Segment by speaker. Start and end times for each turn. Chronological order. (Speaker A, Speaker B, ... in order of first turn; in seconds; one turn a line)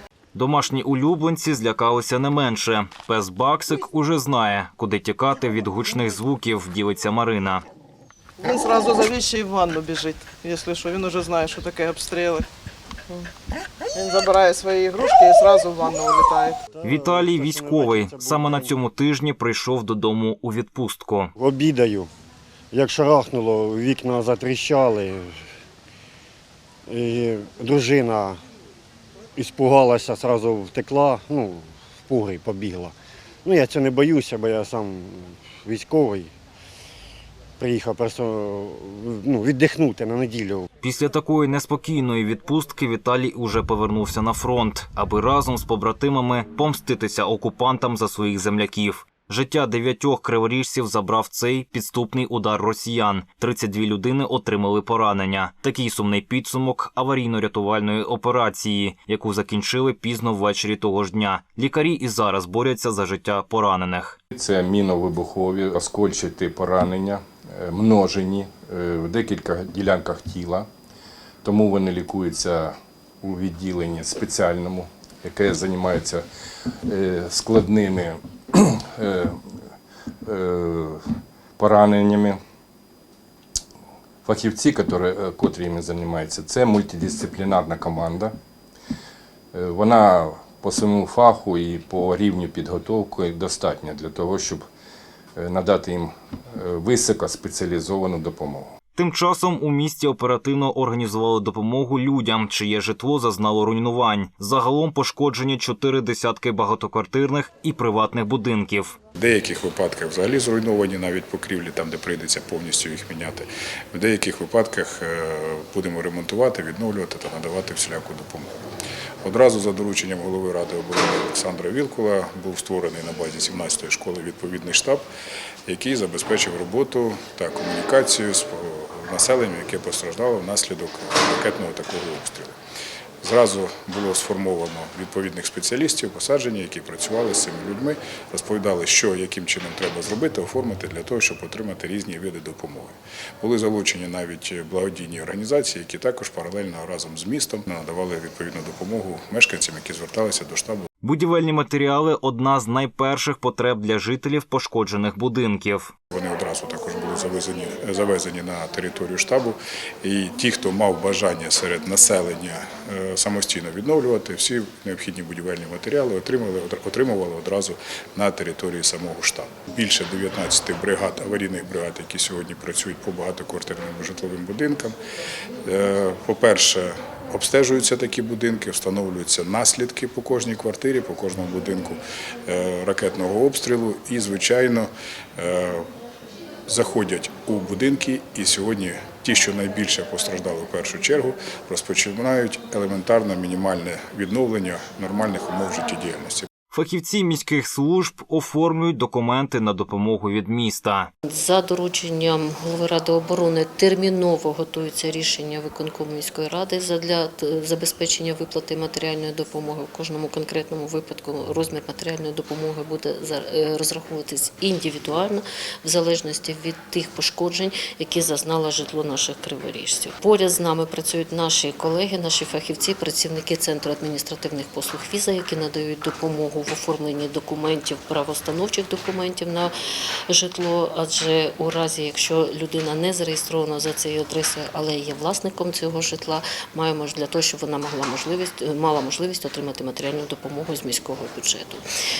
Speaker A: 0.3-7.6
Speaker B: 8.4-12.5
Speaker B: 13.9-16.6
Speaker C: 16.8-18.8
Speaker A: 16.8-21.3
Speaker C: 21.4-22.1
Speaker C: 22.7-25.4
Speaker C: 26.9-28.4
Speaker C: 29.4-32.9
Speaker C: 33.5-36.3
Speaker C: 37.6-40.7
Speaker A: 40.8-64.2
Speaker D: 64.3-70.7
Speaker D: 71.4-76.2
Speaker D: 76.9-79.4
Speaker D: 80.2-81.0
Speaker D: 81.6-82.4
Speaker D: 84.2-88.3
Speaker D: 89.5-94.7
Speaker D: 95.4-98.7
Speaker A: 99.0-109.0
Speaker E: 109.2-118.5
Speaker E: 119.2-125.0
Speaker E: 125.7-132.6
Speaker E: 133.2-150.9
Speaker A: 151.0-155.9
Speaker E: 156.1-174.9
Speaker E: 175.7-185.8
Speaker E: 186.7-196.5
Speaker A: 196.7-201.1
Speaker F: 201.2-229.7
Speaker F: 230.3-241.8